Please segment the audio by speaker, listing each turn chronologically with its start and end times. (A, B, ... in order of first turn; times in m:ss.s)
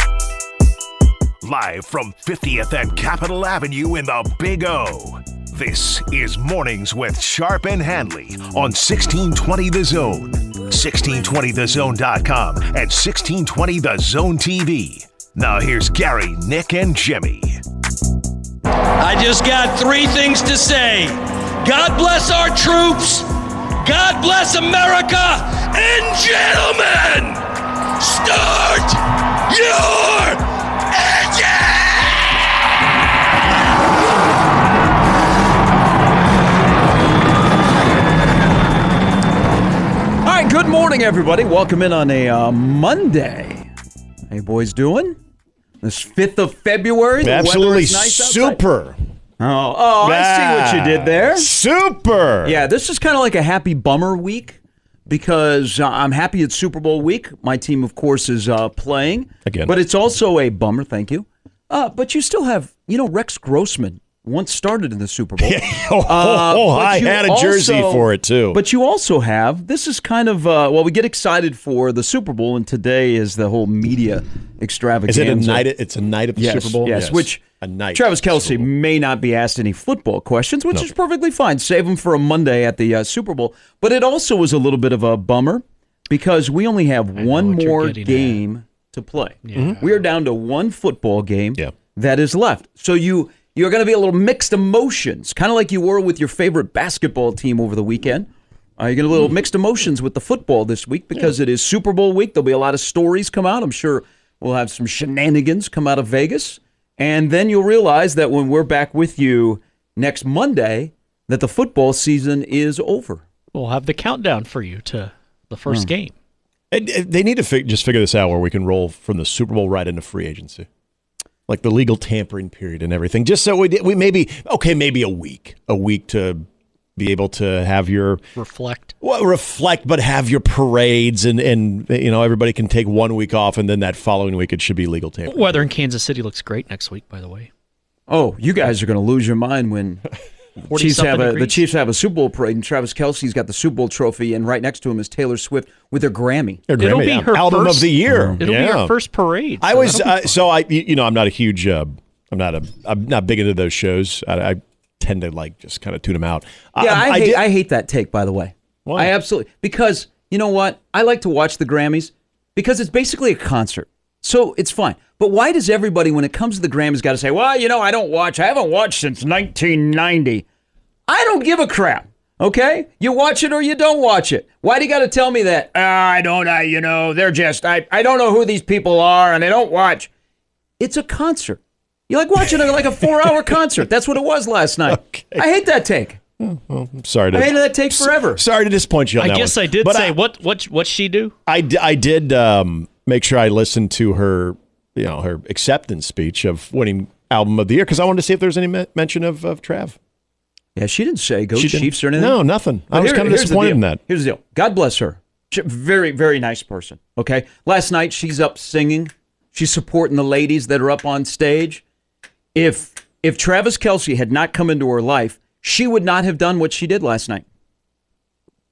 0:01.4-0:17.5 A
0:19.0-0:23.3 B
0:23.8-0:27.5 B
0:28.0-0:32.1 B
0:40.2-0:43.7 C
0:44.3-0:45.2 C
0:45.8-0:48.6 C
0:47.2-0:49.0 D
0:49.4-0:51.5 C
0:50.0-0:52.6 D
0:52.4-1:15.6 C
0:59.4-0:59.7 D
1:05.4-1:08.6 D
1:15.1-1:18.7 D
1:16.4-1:17.4 C
1:17.9-1:53.2 C
1:27.2-1:28.4 E
1:29.4-1:29.8 E
1:53.5-1:56.1 E
1:56.7-2:00.7 D
2:01.5-2:06.4 D
2:07.0-2:08.2 D
2:08.4-2:08.9 E
2:09.0-2:15.7 D
2:15.3-2:17.5 E
2:18.1-2:20.0 C
2:20.7-2:21.6 E
2:20.7-2:26.6 C
2:26.7-2:28.9 D
2:26.8-2:30.4 E
2:28.1-2:28.4 C
2:29.6-2:37.4 D
2:36.8-2:50.4 C
2:38.8-2:39.1 D
2:51.1-3:00.1 C
3:00.8-3:06.2 C
3:03.2-3:03.5 D
3:04.9-3:05.4 D
3:06.4-3:10.2 D
3:07.3-3:08.4 C
3:09.2-3:11.3 E
3:11.5-3:20.0 D
3:20.8-3:22.4 C
3:21.5-3:24.0 D
3:22.9-3:31.8 C
3:32.5-3:37.4 C